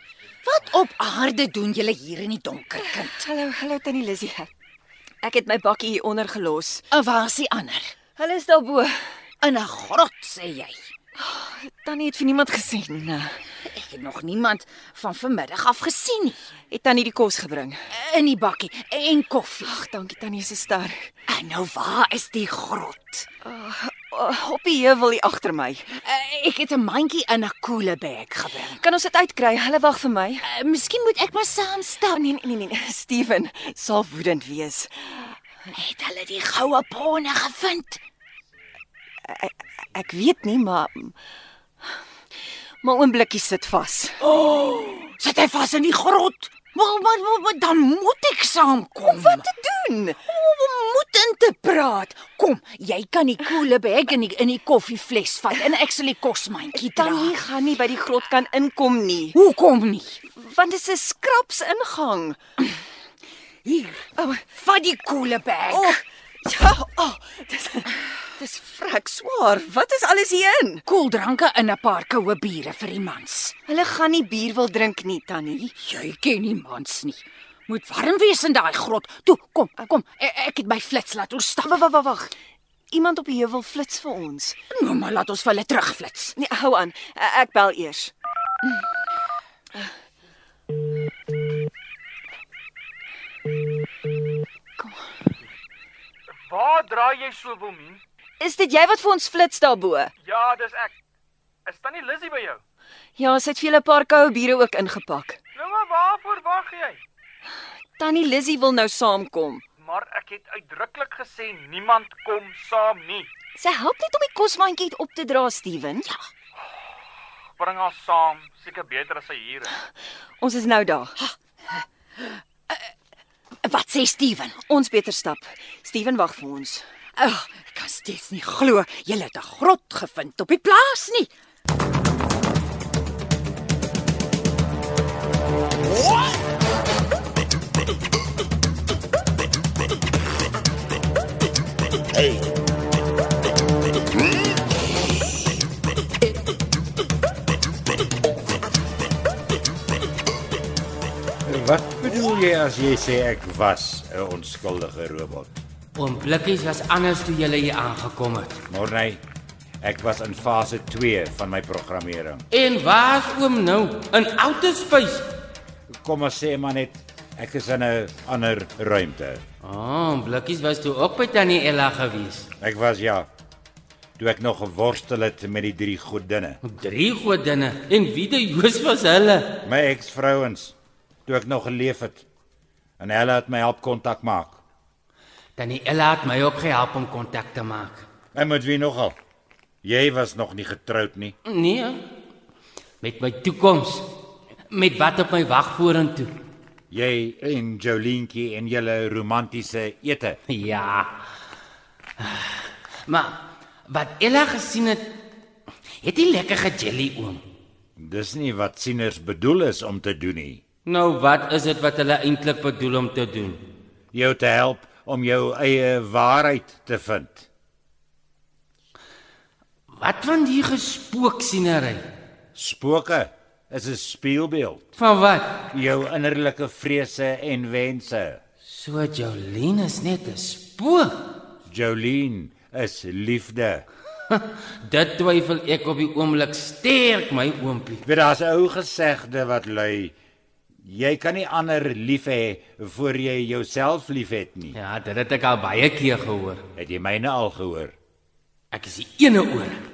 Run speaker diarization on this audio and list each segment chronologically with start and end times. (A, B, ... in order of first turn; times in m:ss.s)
0:00.4-0:03.2 A
0:02.8-0:04.5 B
0:05.2-0:06.9 B
0:06.9-0:07.9 A
0:08.2-0:09.1 B
0:09.4-0:10.8 A
0:11.2-0:13.3 B
0:13.6-0:16.4 A
0:16.7-0:17.8 B
0:17.9-0:19.7 A
0:19.6-0:21.0 B
0:21.3-0:23.3 A
0:23.4-0:25.9 B
0:26.0-0:28.8 A
0:28.6-0:30.4 B
0:30.4-0:32.1 A
0:32.1-0:35.4 B
0:35.7-0:38.0 A
0:39.2-0:41.1 B
0:42.8-0:44.2 B
0:44.3-0:49.4 A
0:49.0-0:50.2 B
0:50.3-0:57.3 A
0:56.7-0:59.4 B
0:59.3-1:00.2 A
1:00.2-1:02.4 B
1:03.6-1:04.0 A
1:04.2-1:04.5 B
1:04.5-1:06.0 A
1:05.7-1:10.8 B
1:10.9-1:13.5 A
1:13.6-1:15.7 B
1:15.8-1:21.7 A
1:21.6-1:22.3 B
1:22.9-1:24.6 B
1:24.7-1:26.4 A
1:26.4-1:28.1 B
1:36.5-1:38.0 C
1:38.4-1:40.1 B
1:40.2-1:40.9 C
1:41.6-1:42.6 C
1:43.2-1:45.4 B
1:45.5-1:47.0 C
1:48.0-1:49.6 B
1:49.8-1:53.3 C
1:53.6-1:56.1 B
1:57.6-1:59.7 C
2:00.4-2:01.2 B
2:03.6-2:04.5 A
2:04.6-2:06.8 B
2:07.2-2:11.3 A
2:10.4-2:11.1 B
2:31.4-2:35.6 D
2:35.9-2:38.6 E
2:38.7-2:39.2 D
2:39.8-2:42.4 D
2:42.5-2:45.3 E
2:46.0-2:49.4 D
2:49.6-2:52.5 E
2:52.6-2:53.3 D
2:54.2-2:56.6 D
2:56.6-2:59.6 E
2:59.6-3:00.7 D
3:01.3-3:02.2 D
3:03.0-3:04.6 D
3:05.6-3:08.0 E
3:08.3-3:09.2 D
3:09.8-3:11.3 D
3:11.4-3:12.0 E
3:13.0-3:14.1 E
3:14.7-3:16.3 E
3:16.9-3:20.4 D
3:20.5-3:21.1 E
3:22.2-3:25.1 E
3:26.0-3:27.4 E
3:28.0-3:30.6 D
3:30.8-3:33.6 E
3:34.1-3:37.5 D
3:39.9-3:42.1 E
3:42.5-3:44.9 D
3:45.0-3:45.6 E
3:45.7-3:48.4 D
3:48.6-3:51.4 E
3:51.7-3:53.8 D
3:54.3-3:58.0 E
3:58.0-4:00.1 D
4:00.8-4:04.8 D
4:04.7-4:06.6 E
4:06.8-4:07.9 D
4:08.7-4:09.8 E